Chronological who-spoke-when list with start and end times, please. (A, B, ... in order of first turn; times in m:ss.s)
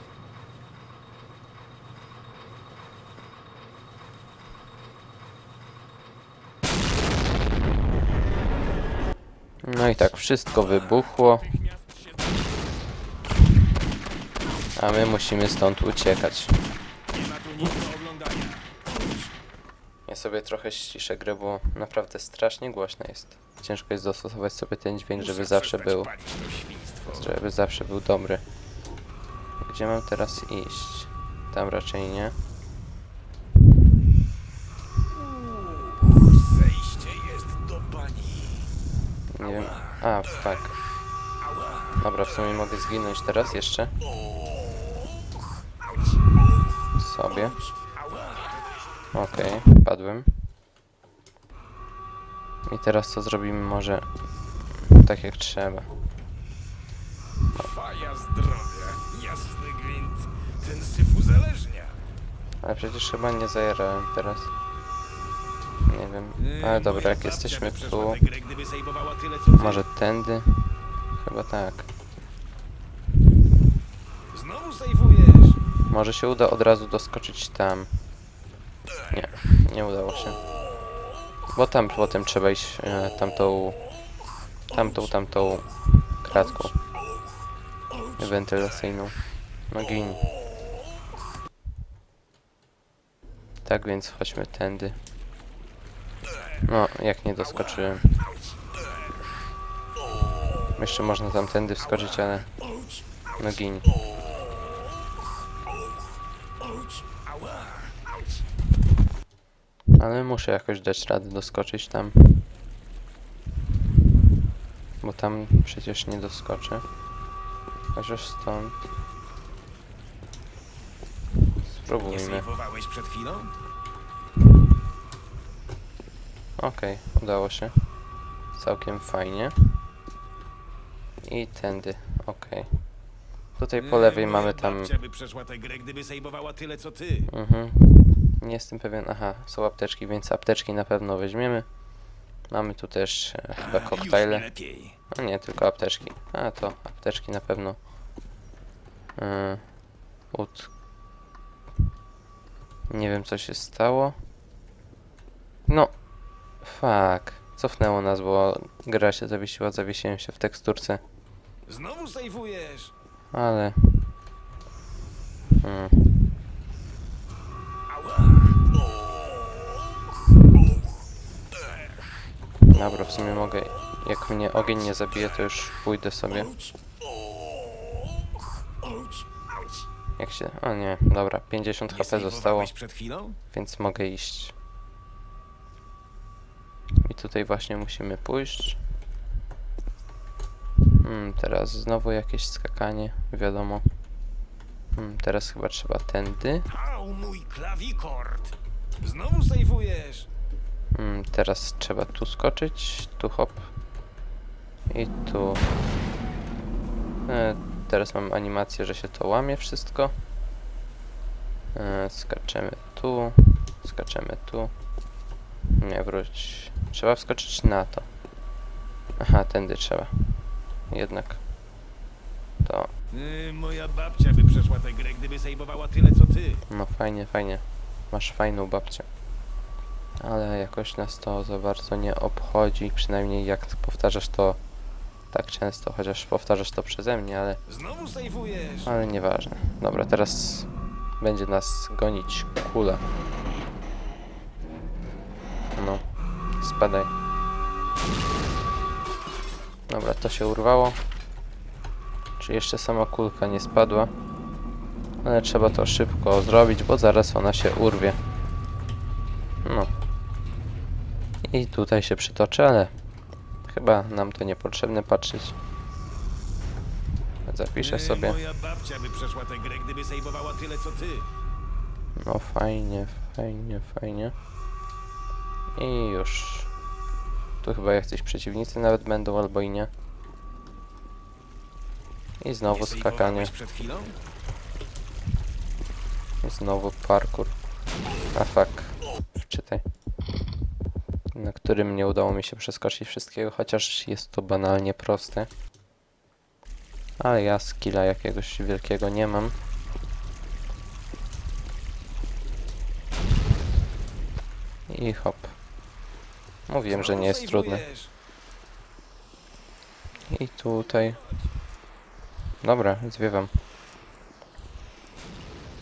0:09.6-0:11.7 A
0:10.6-0:11.1 B
0:14.8-0:16.6 A
0:17.1-0:19.2 B
0:20.1-0:26.1 A
0:25.2-0:27.4 B
0:27.1-0:28.4 A
0:29.6-0:32.3 A
0:35.0-0:38.7 B
0:39.3-0:40.8 A
0:39.4-0:40.1 B
0:41.4-0:42.0 B
0:42.0-0:43.9 A
0:44.3-0:45.0 B
0:46.9-0:47.6 A
0:47.7-0:48.7 B
0:49.1-0:50.4 A
0:52.6-0:54.0 A
0:54.8-0:55.9 A
0:57.5-1:02.0 B
1:02.6-1:04.5 A
1:05.8-1:08.2 A
1:06.4-1:09.8 B
1:09.5-1:11.9 A
1:14.3-1:15.6 B
1:15.9-1:17.9 A
1:19.1-1:20.4 A
1:21.5-1:23.8 A
1:24.7-1:26.7 A
1:26.3-1:26.6 B
1:27.9-1:28.4 B
1:28.2-1:30.3 A
1:33.6-1:35.0 A
1:36.6-1:38.1 A
1:37.4-1:38.2 B
1:40.7-1:42.5 A
1:41.8-1:43.0 B
1:43.4-1:44.0 A
1:46.6-1:47.9 B
1:50.0-1:52.5 A
1:55.0-1:56.8 A
1:57.9-1:58.9 A
2:01.6-2:02.5 A
2:02.0-2:03.5 B
2:06.6-2:07.9 A
2:08.5-2:09.8 A
2:11.2-2:12.7 A
2:13.6-2:14.9 A
2:13.8-2:17.3 B
2:17.3-2:21.6 A
2:22.5-2:24.5 A
2:23.6-2:25.0 B
2:25.1-2:27.8 A
2:29.2-2:29.6 A
2:30.3-2:30.7 A
2:32.9-2:34.2 A
2:35.7-2:35.9 A
2:36.6-2:41.0 A
2:41.6-2:42.9 B
2:43.3-2:44.1 A
2:45.6-2:46.3 A
2:47.9-2:49.7 B
2:52.6-2:56.5 A
2:56.3-2:56.8 B
2:58.8-2:59.2 B
3:00.2-3:02.7 A
3:01.9-3:03.4 B
3:03.5-3:04.5 A
3:07.0-3:08.8 A
3:11.0-3:13.8 A
3:14.9-3:16.7 A
3:16.7-3:20.3 B
3:20.9-3:23.7 A
3:24.9-3:25.7 A
3:27.3-3:30.1 A
3:31.7-3:34.7 A
3:35.8-3:38.1 A
3:39.2-3:41.4 A
3:42.6-3:42.9 A
3:43.1-3:46.6 B
3:46.7-3:49.1 A
3:50.2-3:54.6 A
3:55.3-3:57.6 A
3:57.7-3:58.9 B
3:58.8-4:03.0 A
4:05.8-4:06.0 A
4:06.6-4:07.1 A
4:09.9-4:11.0 A
4:12.4-4:14.1 A
4:15.2-4:18.2 A
4:19.6-4:19.9 A
4:21.4-4:22.9 A
4:23.6-4:25.6 A
4:27.4-4:28.4 A
4:27.8-4:31.3 B
4:32.2-4:34.3 A
4:35.8-4:36.7 A
4:37.6-4:39.9 A
4:42.4-4:43.5 A
4:42.7-4:44.2 B
4:46.4-4:47.5 A
4:48.3-4:49.8 A
4:51.3-4:55.5 A
4:57.2-4:59.6 A
5:04.9-5:05.5 A
5:06.7-5:07.8 A
5:06.9-5:08.1 B
5:10.3-5:11.2 A
5:12.6-5:13.5 A